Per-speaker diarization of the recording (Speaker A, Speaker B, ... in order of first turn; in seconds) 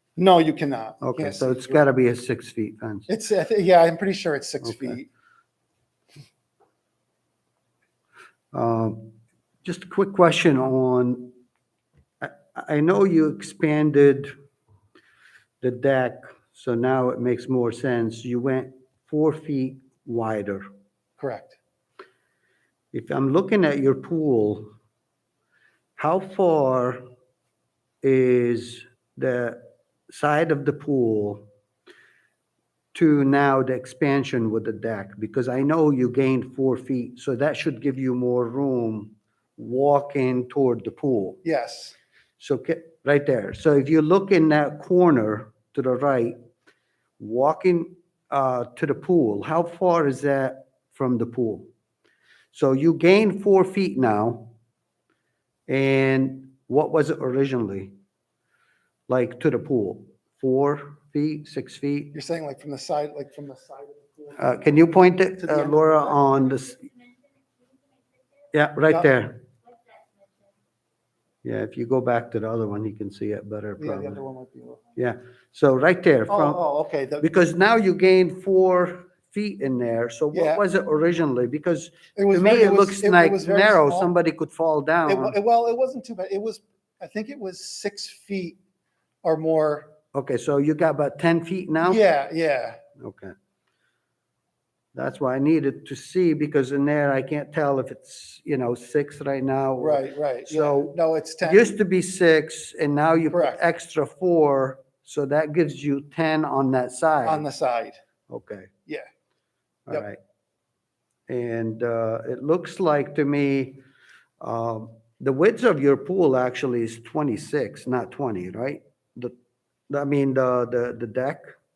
Speaker A: 0.2-1.9, 3.1-5.1, 21.2-21.6, 41.4-42.0, 62.1-64.6, 65.4-66.2, 73.8-74.8, 76.3-77.3, 80.3-80.6, 82.2-84.1, 85.1-88.6, 89.2-89.9, 91.8-92.8, 99.8-101.8, 103.3-103.6, 107.2-108.0
Speaker B: 1.0-3.1, 4.7-5.0, 8.5-11.4, 12.2-14.3, 15.6-20.6, 22.9-24.7, 26.0-27.0, 28.0-31.4, 32.9-41.4, 42.4-46.4, 47.2-51.7, 52.5-54.5, 55.7-57.9, 59.1-62.1, 64.4-66.9, 68.5-69.5, 71.4-74.2, 75.0-76.6, 77.2-85.3, 90.1-92.0, 93.0-93.3, 94.9-107.4, 108.3-108.7, 109.9-110.2, 111.3-113.8, 114.4-119.3, 119.9-121.4